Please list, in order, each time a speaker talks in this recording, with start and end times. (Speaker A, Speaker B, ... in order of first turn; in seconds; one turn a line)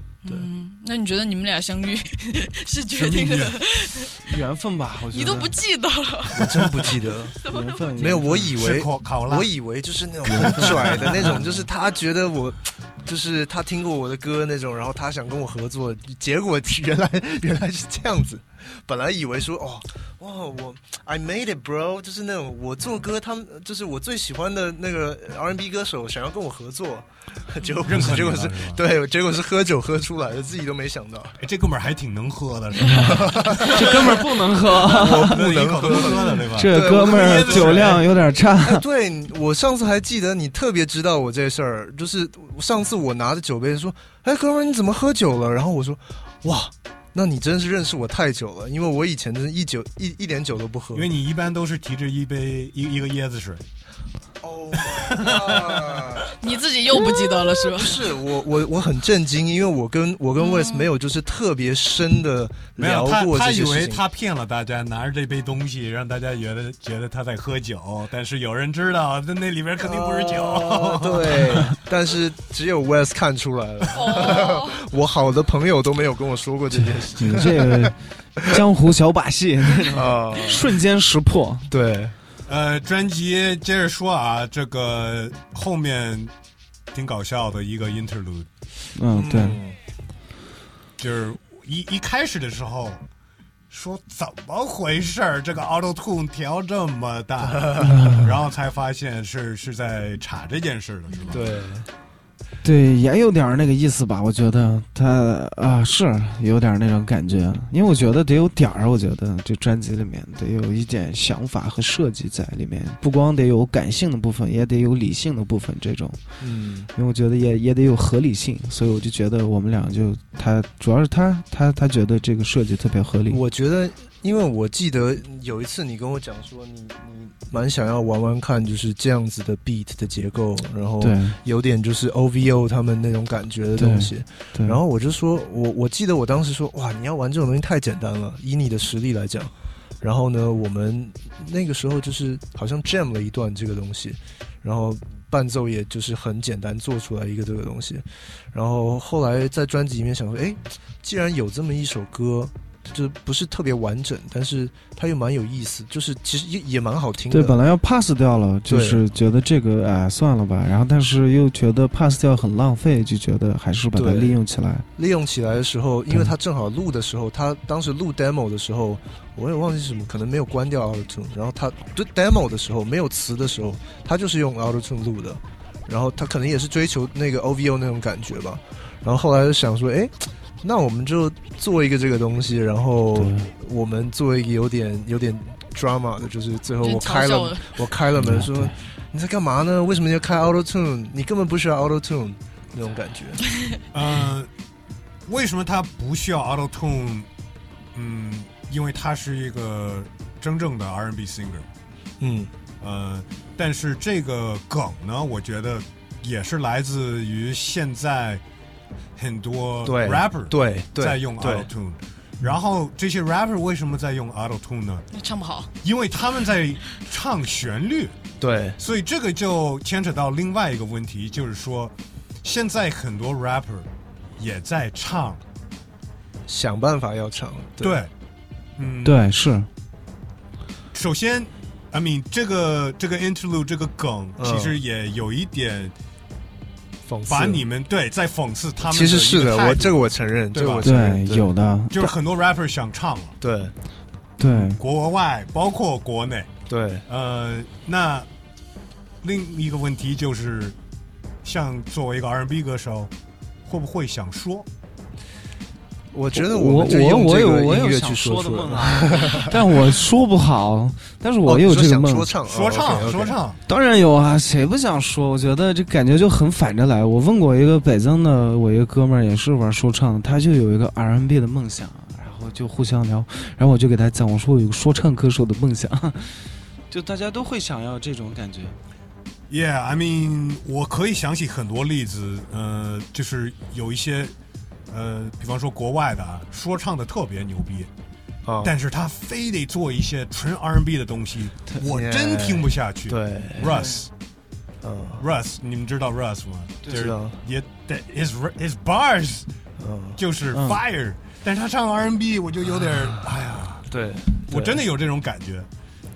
Speaker A: 0.2-4.3
Speaker B: 2.9-3.7
Speaker C: 4.2-5.6
Speaker A: 5.1-6.6
Speaker D: 6.3-7.4
Speaker A: 7.4-7.8
Speaker C: 7.4-8.5
Speaker D: 8.0-31.4
Speaker B: 8.5-9.5
Speaker C: 10.3-11.7
Speaker B: 10.4-11.3
Speaker B: 27.9-28.8
Speaker B: 31.4-34.3
Speaker C: 32.8-38.8
Speaker D: 33.0-34.2
Speaker D: 34.7-38.0
Speaker B: 34.9-38.1
Speaker D: 38.6-51.1
Speaker B: 51.0-53.6
Speaker D: 54.4-56.3
Speaker B: 54.8-56.3
Speaker A: 56.4-58.1
Speaker D: 57.7-64.0
Speaker A: 60.4-60.9
Speaker B: 62.8-71.6
Speaker D: 69.8-77.9
Speaker A: 73.9-74.8
Speaker C: 76.7-81.7
Speaker D: 79.9-80.7
Speaker D: 81.7-82.2
Speaker B: 82.5-86.3
Speaker B: 86.9-88.5
Speaker C: 89.0-89.6
Speaker D: 89.1-89.8
Speaker B: 91.0-93.0
Speaker B: 93.7-101.5
Speaker D: 97.4-98.0
Speaker C: 97.8-98.3
Speaker A: 101.1-101.4
Speaker D: 101.3-101.9
Speaker C: 102.6-116.2
Speaker D: 116.4-116.9
Speaker C: 117.0-123.4
Speaker D: 123.3-157.6
Speaker C: 131.0-131.4
Speaker C: 133.8-134.8
Speaker C: 157.3-164.9
Speaker D: 158.7-159.0
Speaker D: 164.0-164.4
Speaker D: 165.0-193.4
Speaker C: 183.2-183.5
Speaker A: 186.8-187.8
Speaker C: 188.2-188.7
Speaker B: 193.9-194.5
Speaker B: 195.3-197.3
Speaker B: 197.9-201.7
Speaker D: 202.2-202.5
Speaker B: 202.8-208.4
Speaker B: 209.2-215.1
Speaker D: 209.8-211.7
Speaker A: 215.1-215.7
Speaker B: 215.8-218.2
Speaker D: 218.4-218.8
Speaker B: 218.8-225.4
Speaker D: 226.5-228.0
Speaker B: 227.8-228.1
Speaker B: 228.8-229.2
Speaker C: 229.0-229.7
Speaker B: 230.9-235.9
Speaker D: 234.4-234.8
Speaker D: 237.1-237.6
Speaker B: 237.3-240.0
Speaker D: 238.8-241.5
Speaker B: 240.5-240.9
Speaker C: 240.8-242.1
Speaker B: 241.9-243.4
Speaker D: 243.4-243.7
Speaker C: 244.4-244.8
Speaker B: 244.6-246.5
Speaker D: 246.7-247.1
Speaker B: 247.1-248.3
Speaker B: 249.2-250.8
Speaker B: 251.4-253.1
Speaker B: 253.7-254.7
Speaker D: 256.1-259.6
Speaker C: 256.3-262.3
Speaker D: 261.4-263.4
Speaker B: 262.5-263.6
Speaker C: 263.7-278.8
Speaker B: 279.5-284.4
Speaker B: 284.9-287.9
Speaker D: 288.4-288.7
Speaker B: 288.6-294.1
Speaker D: 291.9-293.8
Speaker C: 293.6-294.1
Speaker D: 294.8-295.2
Speaker B: 295.2-299.5
Speaker C: 296.8-297.1
Speaker D: 296.9-297.4
Speaker D: 299.8-300.2
Speaker B: 300.2-303.9
Speaker C: 300.5-300.8
Speaker D: 303.9-304.8
Speaker B: 304.5-305.7